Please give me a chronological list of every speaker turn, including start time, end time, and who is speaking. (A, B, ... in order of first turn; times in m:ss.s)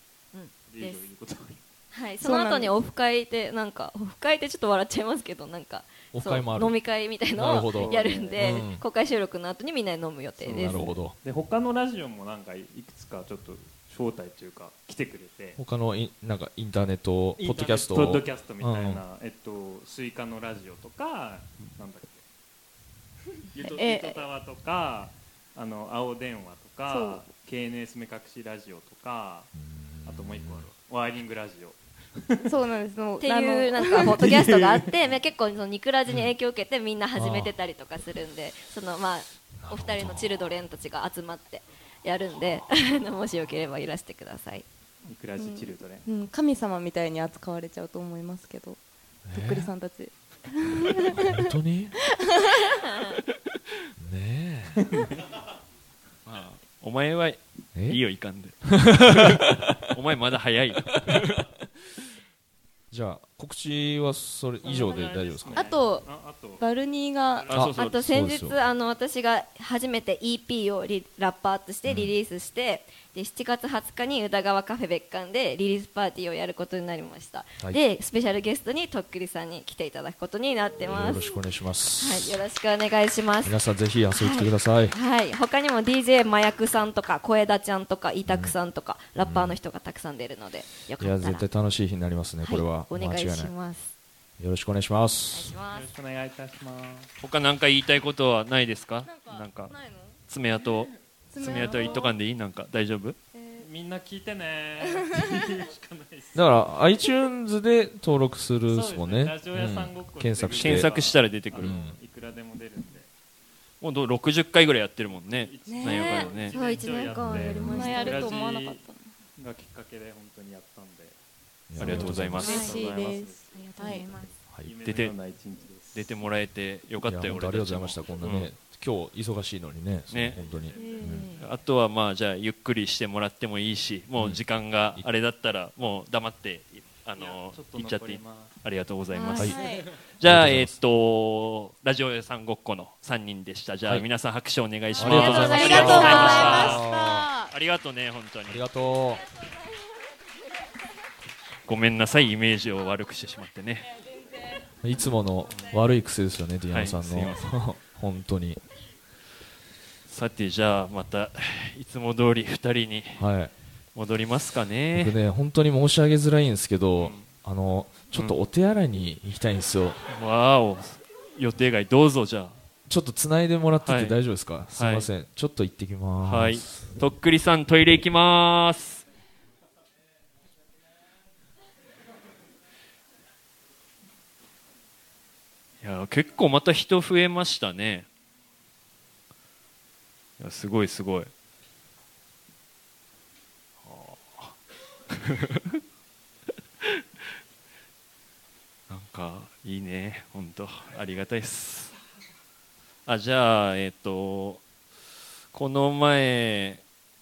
0:00.3-0:01.0 A
0:00.7-0:01.6 B
0:01.9-0:11.0 A
0:02.2-0:02.8 C
0:06.1-0:08.8 D
0:07.4-0:08.6 B
0:10.4-0:15.6 B
0:10.6-0:11.2 D
0:15.6-0:19.0 D
0:17.4-0:22.2 B
0:23.5-0:29.5 B
0:23.6-0:24.2 C
0:26.9-0:27.2 C
0:29.6-0:30.7 D
0:30.0-0:31.8 B
0:32.5-0:34.2 C
0:33.2-0:44.7 A
0:34.1-0:34.9 B
0:36.1-0:36.3 D
0:37.2-0:37.5 D
0:39.6-0:40.5 D
0:45.0-0:46.1 B
0:45.4-0:48.8 C
0:49.3-0:49.7 D
0:49.3-0:51.5 C
0:51.3-0:52.0 D
0:54.0-0:54.8 D
0:56.3-1:01.3 E
0:57.8-0:58.0 D
0:58.6-0:59.7 D
1:02.9-1:05.7 D
1:04.6-1:06.6 B
1:05.5-1:06.1 C
1:06.6-1:07.5 C
1:07.3-1:07.7 B
1:07.5-1:08.0 E
1:07.5-1:08.6 D
1:07.8-1:21.3 A
1:11.8-1:12.2 D
1:20.8-1:22.4 D
1:22.0-1:23.6 A
1:23.4-1:25.0 D
1:24.2-1:31.5 A
1:28.2-1:28.6 D
1:29.2-1:29.6 D
1:31.0-1:33.5 D
1:32.4-1:33.9 A
1:34.4-1:35.5 D
1:35.3-1:35.9 A
1:35.6-1:37.1 B
1:37.2-1:39.7 E
1:39.0-1:40.2 C
1:40.3-1:43.2 E
1:41.3-1:42.1 C
1:43.5-1:46.6 B
1:44.8-1:45.3 C
1:46.4-1:51.0 D
1:48.7-1:53.1 B
1:50.6-1:51.8 E
1:51.6-1:52.0 D
1:53.8-1:56.6 E
1:55.3-1:58.8 B
1:55.7-1:56.2 C
1:55.8-1:58.3 A
1:57.4-1:57.9 D
1:57.6-1:59.1 C
1:59.4-2:01.2 B
2:01.7-2:02.6 D
2:01.8-2:02.6 E
2:01.8-2:04.1 C
2:02.0-2:06.2 B
2:02.4-2:02.8 A
2:03.5-2:04.3 A
2:04.8-2:05.2 E
2:06.0-2:08.5 E
2:07.0-2:11.3 D
2:10.1-2:10.4 E
2:10.2-2:11.4 B
2:10.8-2:11.4 A
2:11.3-2:19.6 E
2:17.2-2:18.6 B
2:19.1-2:19.6 A
2:19.3-2:19.6 D
2:19.4-2:19.9 C
2:20.1-2:26.8 E
2:20.2-2:20.8 D
2:25.0-2:27.3 D
2:25.0-2:27.5 C
2:25.4-2:26.5 A
2:27.5-2:28.7 E
2:28.4-2:29.2 D
2:31.7-2:33.9 E
2:34.8-2:38.6 D
2:36.7-2:37.4 E
2:40.1-2:43.3 E
2:43.2-2:43.5 D
2:44.0-2:45.2 E
2:44.9-2:50.0 D
2:47.0-2:47.3 E
2:50.1-2:52.6 E
2:52.9-2:56.9 D
2:53.8-2:54.2 E
2:54.7-2:55.1 E
2:56.2-2:59.1 E
3:05.8-3:08.1 E
3:10.4-3:11.3 E
3:13.8-3:14.6 E
3:15.2-3:15.5 E
3:18.9-3:22.0 E
3:23.1-3:24.6 E
3:25.5-3:26.8 E